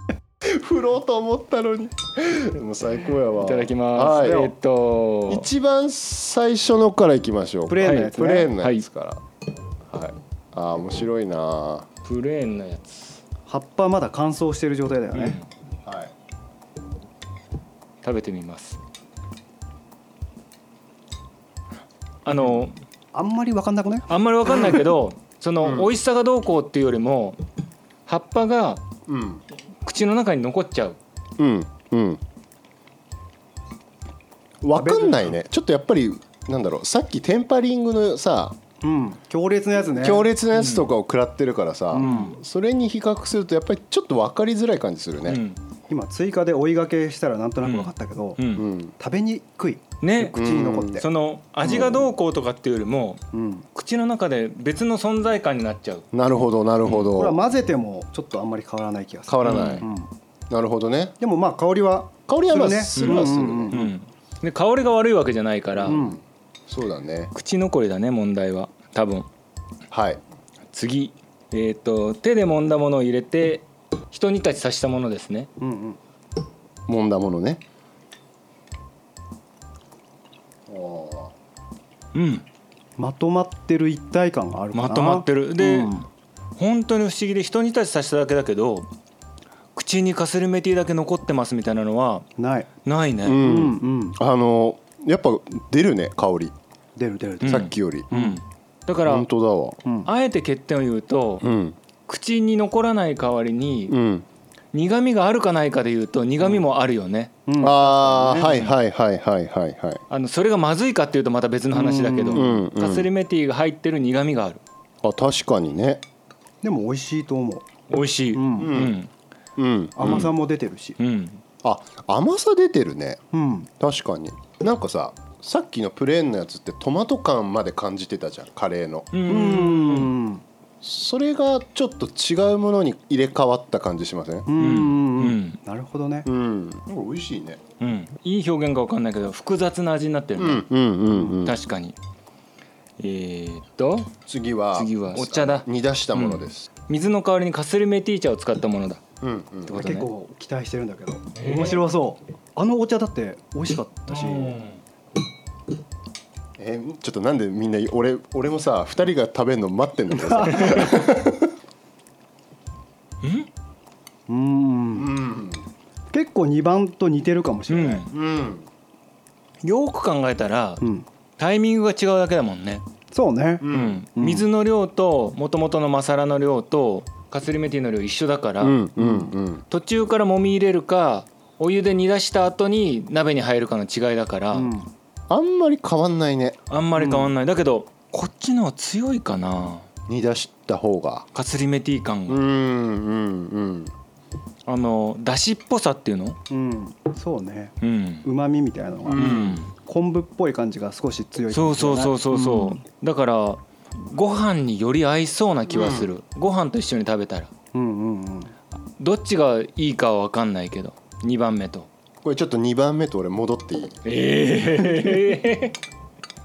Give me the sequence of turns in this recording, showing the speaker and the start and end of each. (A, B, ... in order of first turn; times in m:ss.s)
0:00.4-0:04.5 A
0:03.4-0:05.4 B
0:04.1-0:04.5 C
0:05.3-0:09.2 A
0:07.7-0:08.5 C
0:07.8-0:08.8 B
0:09.9-0:11.9 A
0:12.0-0:13.2 B
0:13.5-0:15.4 C
0:15.1-0:15.4 B
0:15.8-0:16.1 A
0:18.0-0:18.8 B
0:22.2-0:22.7 B
0:23.1-0:24.1 C
0:24.1-0:27.4 B
0:25.6-0:25.9 A
0:28.1-0:28.8 B
0:29.1-0:29.4 A
0:29.8-0:31.0 B
0:31.4-0:32.2 A
0:34.6-0:38.6 A
0:34.8-0:35.3 C
0:38.8-0:40.3 C
0:40.0-0:45.4 A
0:40.5-0:40.9 B
0:41.9-0:42.4 C
0:42.0-0:42.3 B
0:45.3-0:45.6 B
0:45.9-0:48.4 C
0:47.6-0:48.7 B
0:48.6-0:48.9 A
0:49.0-0:51.0 C
0:50.0-0:50.4 B
0:50.3-0:51.0 A
0:50.9-0:53.2 B
0:51.6-0:52.0 C
0:53.3-0:53.6 C
0:53.7-0:56.0 B
0:56.1-0:57.4 A
0:57.1-1:00.1 C
0:59.3-0:59.9 A
0:59.4-0:59.8 B
1:00.5-1:01.1 A
1:01.2-1:03.9 C
1:02.3-1:03.8 A
1:03.0-1:06.0 B
1:05.8-1:06.1 A
1:05.8-1:06.2 C
1:06.7-1:07.3 A
1:07.3-1:09.3 B
1:09.9-1:10.2 A
1:10.7-1:15.5 B
1:15.6-1:16.0 C
1:16.9-1:17.6 A
1:20.7-1:21.3 A
1:22.1-1:22.4 B
1:23.0-1:26.0 C
1:24.7-1:26.0 B
1:26.6-1:28.9 B
1:29.8-1:32.3 B
1:32.4-1:32.7 C
1:32.8-1:33.4 B
1:33.2-1:36.5 A
1:33.3-1:34.2 C
1:37.0-1:38.4 C
1:37.4-1:39.3 B
1:37.4-1:38.1 A
1:39.0-1:39.8 A
1:40.0-1:41.5 B
1:41.4-1:41.8 A
1:42.1-1:44.0 B
1:43.9-1:44.2 A
1:44.7-1:47.3 B
1:47.4-1:48.6 C
1:47.6-1:50.0 A
1:50.1-1:54.6 B
1:51.7-1:52.6 C
1:52.3-1:53.1 A
1:55.0-1:56.0 A
1:56.6-1:57.6 C
1:57.9-1:59.1 B
1:58.3-1:58.8 C
1:58.6-1:59.0 A
1:59.6-2:00.3 A
2:00.0-2:01.0 C
2:00.0-2:00.3 B
2:01.0-2:01.4 B
2:01.6-2:03.2 A
2:03.3-2:03.7 C
2:03.8-2:09.1 A
2:09.1-2:10.1 B
2:09.2-2:10.4 C
2:10.8-2:14.5 A
2:14.5-2:16.3 C
2:14.6-2:15.6 B
2:16.2-2:17.6 A
2:17.8-2:20.6 B
2:20.4-2:21.6 A
2:21.4-2:21.9 B
2:23.0-2:24.1 B
2:24.3-2:26.7 A
2:24.7-2:29.0 B
2:29.2-2:29.8 A
2:29.7-2:30.1 B
2:29.7-2:34.6 C
2:31.3-2:31.9 B
2:34.1-2:34.8 B
2:36.6-2:41.5 A
2:40.1-2:41.0 C
2:43.2-2:43.5 B
2:44.3-2:45.1 C
2:44.9-2:45.6 A
2:46.1-2:48.1 C
2:47.7-2:48.1 B
2:48.1-2:48.7 A
2:49.6-2:50.8 B
2:50.8-2:51.0 C
2:51.4-2:52.8 B
2:53.1-2:54.4 C
2:53.6-2:54.0 A
2:53.7-2:58.8 B
2:58.6-2:59.6 A
2:59.0-2:59.3 C
2:59.7-3:04.7 B
3:04.5-3:04.9 C
3:05.3-3:06.6 A
3:06.7-3:09.8 B
3:07.0-3:07.3 C
3:10.1-3:11.3 A
3:11.3-3:12.4 B
3:12.3-3:13.9 A
3:14.6-3:16.4 B
3:16.5-3:22.8 C
3:17.8-3:18.2 B
3:19.0-3:19.6 A
3:19.2-3:19.7 B
3:21.5-3:27.5 B
3:25.7-3:26.1 A
3:27.7-3:28.5 C
3:29.0-3:31.9 B
3:32.2-3:34.0 A
3:34.0-3:35.8 B